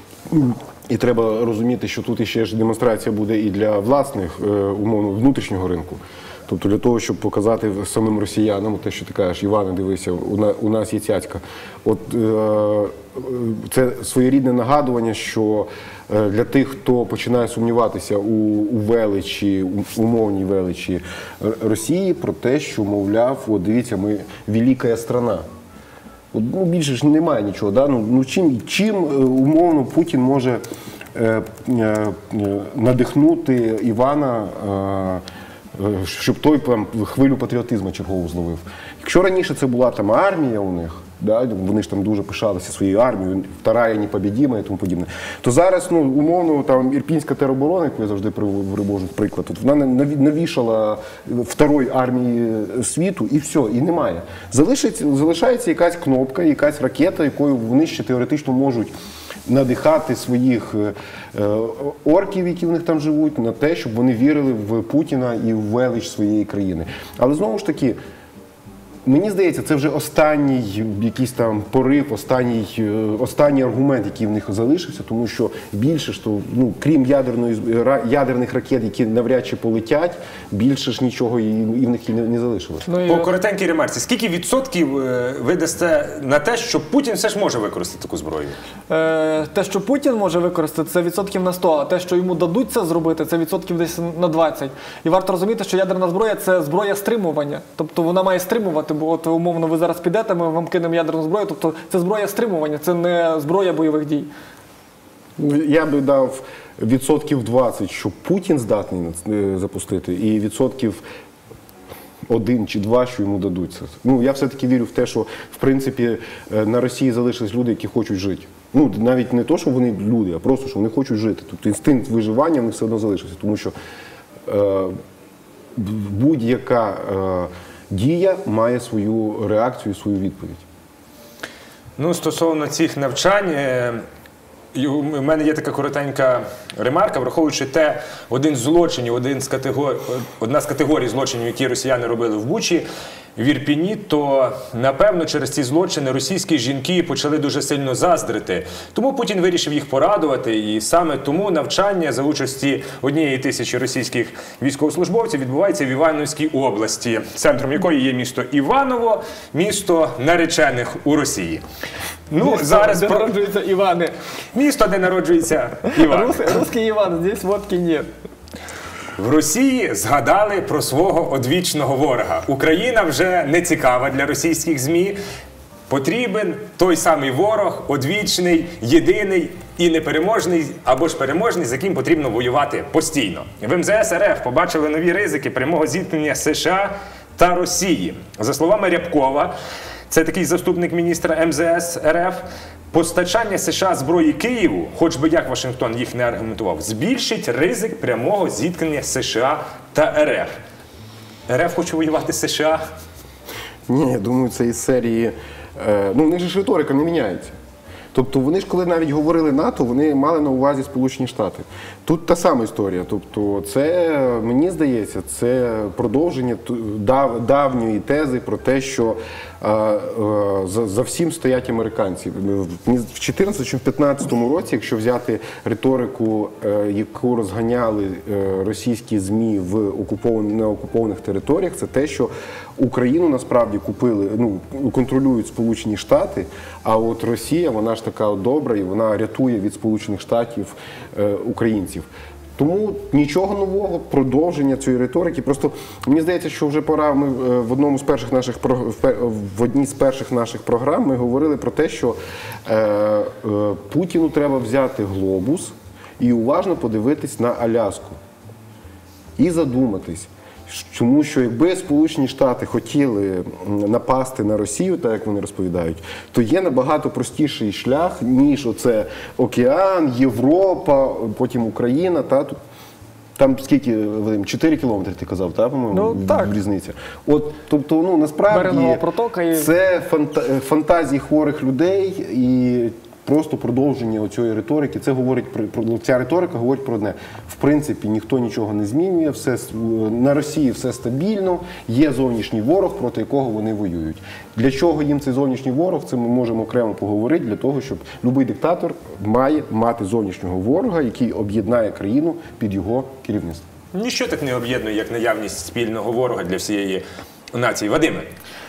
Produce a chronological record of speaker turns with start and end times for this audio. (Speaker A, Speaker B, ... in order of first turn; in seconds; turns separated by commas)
Speaker A: 0.3-25.4, Speaker A: 26.3-30.6, Speaker A: 31.1-35.2, Speaker A: 35.7-58.9, Speaker A: 59.5-68.0, Speaker A: 69.0-82.9, Speaker B: 82.9-83.3, Speaker C: 83.1-88.6, Speaker B: 88.9-104.3, Speaker A: 105.4-111.0, Speaker A: 112.3-123.7, Speaker A: 124.5-125.0, Speaker A: 125.8-130.7, Speaker C: 132.0-134.0, Speaker C: 134.7-161.6, Speaker C: 162.3-163.3, Speaker B: 162.4-164.1, Speaker C: 164.5-166.7, Speaker B: 165.9-168.1, Speaker C: 169.2-175.2, Speaker C: 175.9-189.5, Speaker C: 190.1-200.5, Speaker C: 201.5-202.8, Speaker A: 203.9-207.6, Speaker A: 208.1-258.2, Speaker A: 259.4-272.6, Speaker A: 273.4-279.0, Speaker B: 275.9-276.5, Speaker B: 278.5-279.7, Speaker A: 279.5-303.6, Speaker C: 303.9-308.3